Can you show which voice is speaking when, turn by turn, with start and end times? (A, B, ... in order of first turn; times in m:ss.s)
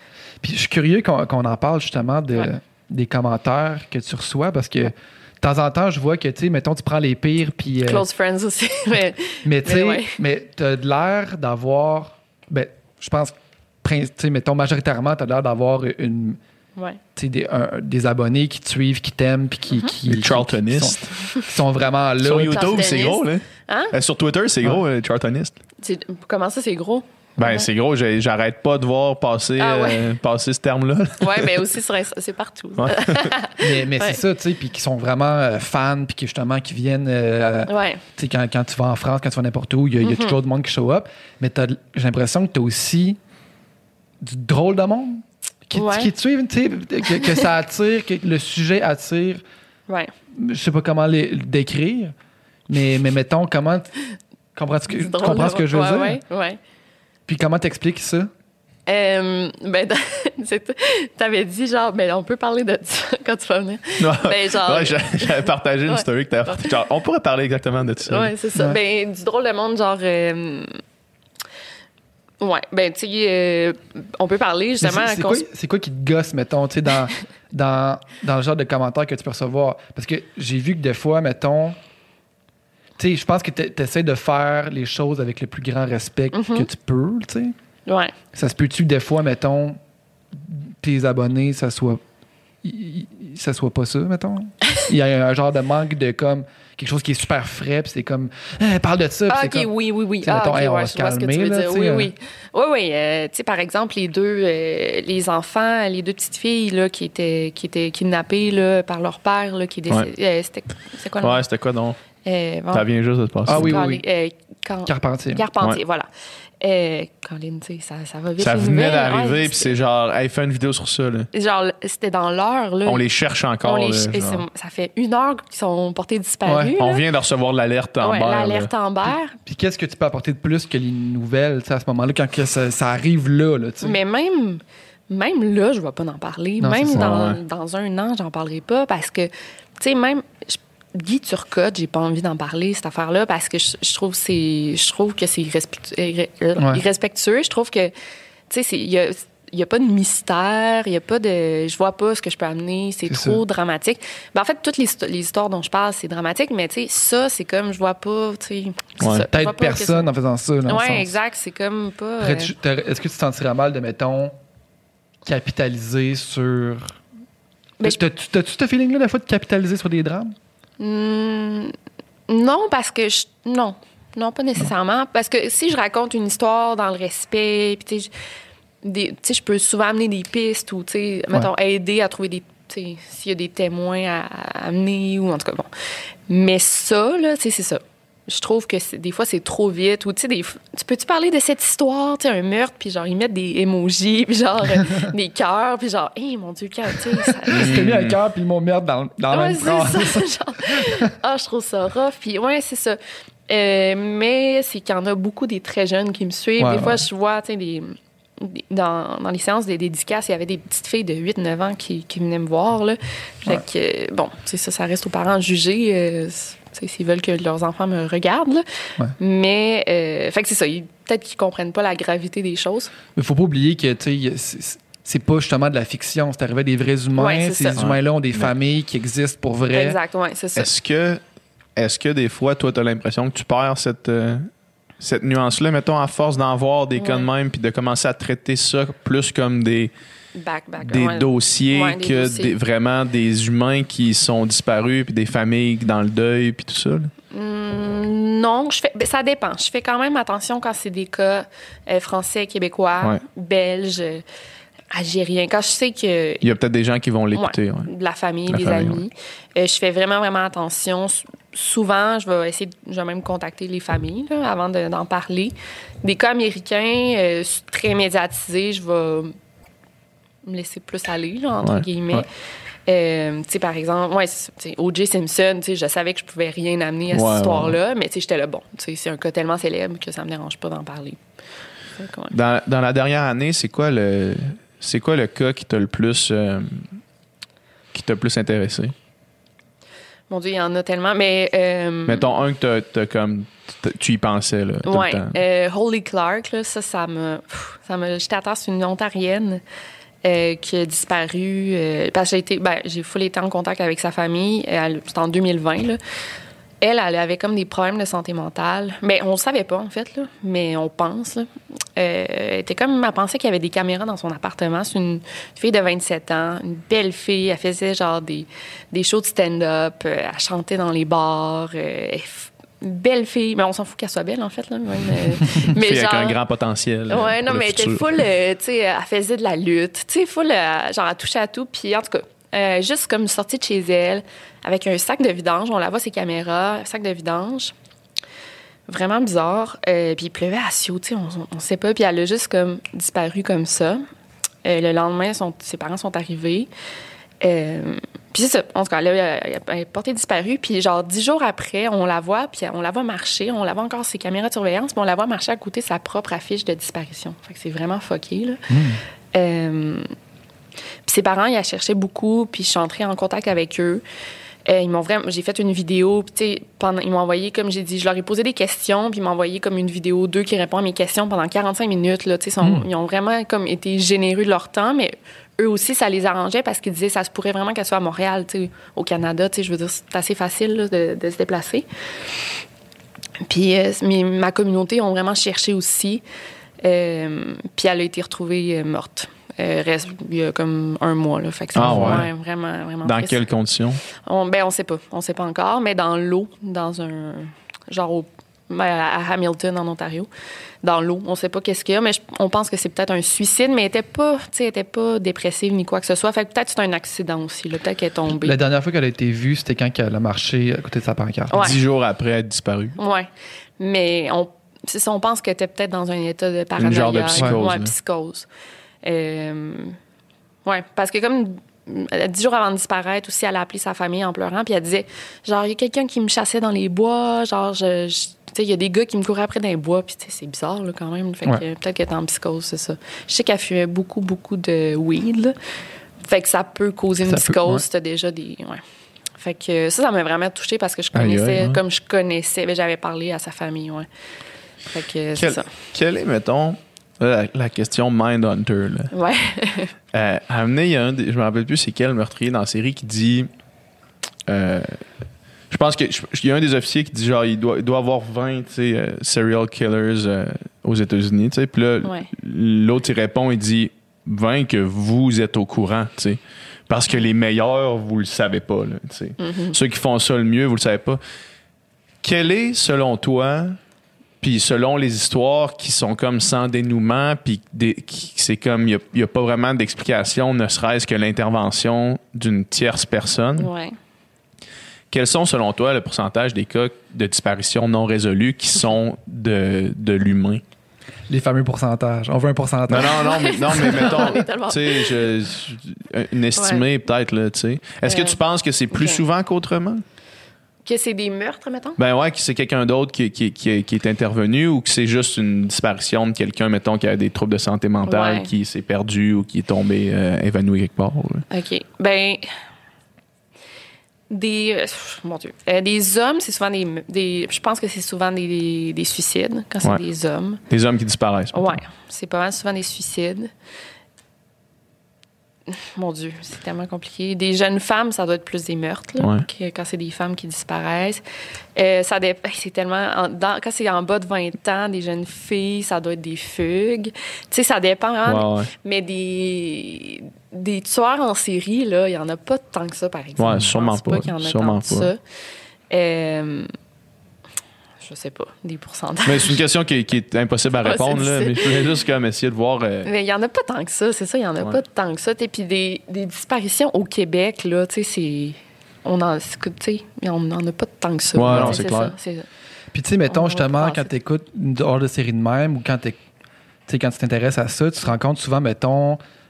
0:00.4-0:08.0 A
0:07.8-0:10.2 B
0:09.4-0:16.4 A
0:17.1-0:22.7 A
0:20.1-0:21.1 C
0:22.2-0:25.6 C
0:22.5-0:23.9 B
0:25.8-0:27.7 B
0:27.4-0:31.7 C
0:29.6-0:30.0 B
0:31.2-0:34.2 B
0:32.8-0:33.3 C
0:33.6-0:43.2 A
0:37.7-0:38.0 B
0:40.0-0:40.3 B
0:44.2-0:49.4 A
0:45.7-0:46.1 B
0:50.3-0:52.1 A
0:52.7-0:53.9 A
0:54.5-0:56.2 A
0:54.9-0:56.6 B
0:57.3-0:58.3 A
0:58.9-1:06.7 B
1:04.0-1:08.3 C
1:08.0-1:10.7 B
1:12.4-1:15.4 B
1:14.8-1:21.8 A
1:23.0-1:27.5 A
1:26.3-1:26.7 B
1:27.9-1:28.1 B
1:28.3-1:29.8 A
1:30.3-1:32.0 A
1:32.6-1:39.7 A
1:39.3-1:51.4 B
1:40.2-1:42.1 A
1:51.2-1:52.0 C
1:52.2-1:52.8 B
1:52.7-1:53.8 C
1:53.5-1:54.0 A
1:53.5-1:56.1 B
1:54.8-1:55.4 A
1:56.6-1:59.7 B
1:58.4-2:01.3 C
2:01.3-2:03.0 B
2:02.8-2:04.4 C
2:03.6-2:07.0 B
2:06.4-2:06.7 A
2:06.8-2:08.7 C
2:08.0-2:09.3 B
2:09.4-2:14.0 A
2:13.8-2:27.9 B
2:16.6-2:17.1 A
2:16.9-2:17.4 C
2:26.6-2:26.8 A
2:28.5-2:40.1 B
2:33.1-2:33.4 A
2:39.0-2:39.2 C
2:39.3-2:41.1 A
2:40.6-2:42.5 B
2:42.2-2:44.4 A
2:45.2-2:47.0 A
2:47.8-2:50.3 A
2:50.8-2:51.7 B
2:52.3-2:58.1 B
2:58.8-3:05.7 B
3:06.3-3:17.8 B
3:17.4-3:21.1 A
3:17.5-3:18.2 C
3:19.3-3:38.6 B
3:26.6-3:27.0 A
3:39.2-3:42.9 B
3:43.1-3:50.0 A
3:47.1-3:47.8 B
3:47.8-3:48.5 C
3:49.7-3:50.7 B
3:50.6-3:51.2 C
3:51.8-3:54.5 C
3:55.0-3:59.9 C
3:57.0-3:57.3 B
4:00.4-4:02.5 B
4:00.8-4:07.1 C
4:07.3-4:14.2 B
4:14.9-4:16.4 B
4:16.4-4:17.9 C
4:17.3-4:29.3 B
4:18.5-4:19.0 C
4:30.4-4:32.3 B
4:32.8-4:41.2 B
4:37.1-4:37.7 C
4:42.0-4:42.3 B
4:42.3-4:47.0 C
4:47.9-4:48.9 C
4:50.3-4:52.2 B
4:52.1-4:55.4 C
4:54.8-4:59.6 B
5:00.2-5:06.0 B
5:06.8-5:26.4 B
5:25.7-5:28.2 C
5:27.1-5:37.7 B
5:38.9-5:44.0 B
5:44.6-5:46.7 B
5:47.4-5:58.6 B
5:58.7-5:59.0 A
5:59.3-6:00.1 B
6:01.1-6:04.0 B
6:04.6-6:21.8 B
6:12.6-6:12.8 A
6:23.4-6:26.2 B
6:26.8-6:33.4 B
6:31.8-6:32.3 C
6:31.8-6:32.2 A
6:33.0-6:34.0 C
6:34.2-6:40.3 B
6:40.8-6:48.6 B
6:48.3-6:51.7 A
6:51.5-6:51.8 B
6:51.6-6:53.0 C
6:53.0-6:58.5 B
6:56.8-6:57.9 C
6:59.0-7:00.0 B
7:00.6-7:15.6 B
7:16.2-7:18.8 B
7:17.2-7:17.8 A
7:19.4-7:24.1 B
7:21.1-7:21.8 C
7:24.9-7:25.7 B
7:25.4-7:29.1 C
7:29.1-7:29.9 B
7:30.1-7:33.5 C
7:34.5-7:35.0 C
7:35.7-7:51.2 C
7:42.0-7:42.3 B
7:49.4-7:49.8 B
7:52.2-7:53.8 C
7:54.4-8:03.7 C
8:03.6-8:04.0 B
8:05.1-8:10.6 C
8:11.3-8:13.2 A
8:12.9-8:20.0 C
8:13.1-8:15.2 B
8:16.6-8:16.8 B
8:18.0-8:18.4 B
8:18.9-8:19.2 B
8:20.8-8:22.0 B
8:22.0-8:31.5 C
8:28.0-8:28.5 B
8:31.5-8:32.5 B
8:34.3-8:40.6 B
8:40.7-8:41.8 C
8:41.5-8:43.5 B
8:45.7-8:51.2 B
8:49.2-8:49.4 C
8:51.7-9:05.2 B
8:58.2-8:58.7 C
9:03.4-9:05.1 C
9:05.9-9:06.7 B
9:08.0-9:09.6 B
9:09.2-9:13.1 C
9:10.8-9:11.9 B
9:13.0-9:22.4 B
9:21.3-9:22.1 C
9:21.5-9:21.8 A
9:22.9-9:26.2 A
9:23.3-9:24.1 B
9:26.9-9:29.2 A